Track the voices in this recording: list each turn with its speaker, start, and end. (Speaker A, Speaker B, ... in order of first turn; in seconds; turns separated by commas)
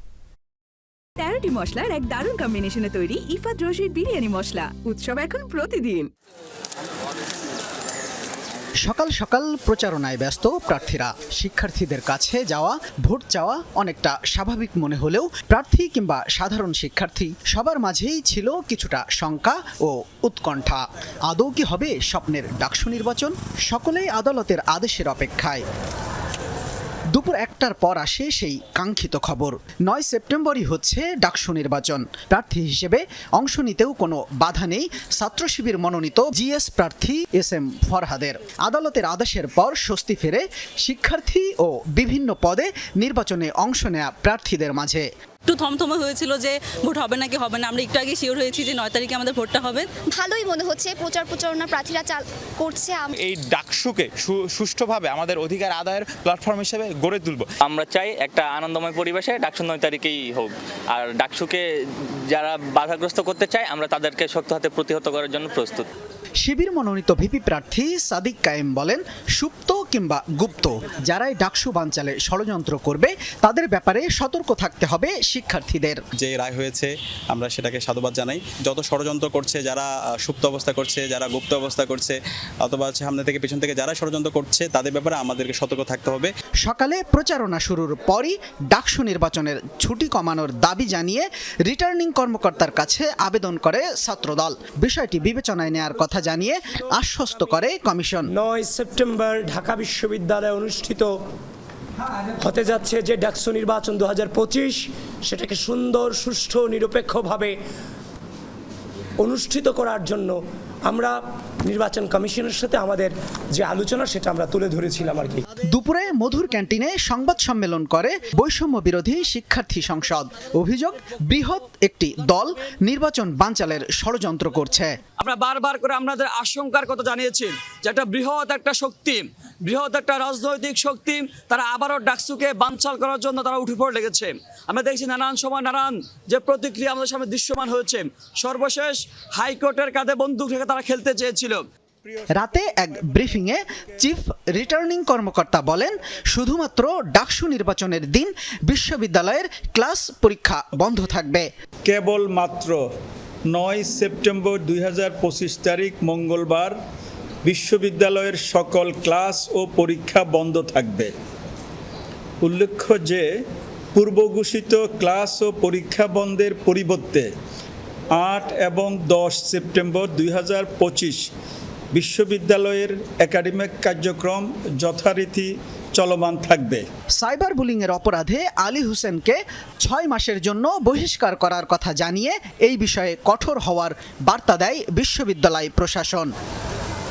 Speaker A: 1.2-6.1, Speaker B: 8.8-25.6, Speaker B: 27.1-45.0, Speaker C: 45.5-46.4, Speaker C: 46.9-49.6, Speaker D: 50.1-53.1, Speaker E: 53.2-57.5, Speaker F: 57.6-61.6, Speaker F: 62.3-65.9, Speaker B: 66.4-76.0, Speaker G: 76.2-86.3, Speaker B: 86.6-98.3, Speaker H: 98.3-101.1, Speaker H: 102.4-107.5, Speaker H: 109.2-115.4, Speaker B: 115.7-124.9, Speaker I: 125.2-141.6, Speaker B: 142.3-151.5, Speaker J: 151.8-152.8, Speaker J: 153.5-156.7, Speaker J: 157.4-161.1, Speaker J: 162.4-163.2, Speaker J: 163.9-167.3, Speaker J: 168.2-171.2, Speaker J: 171.9-176.8, Speaker B: 177.2-186.3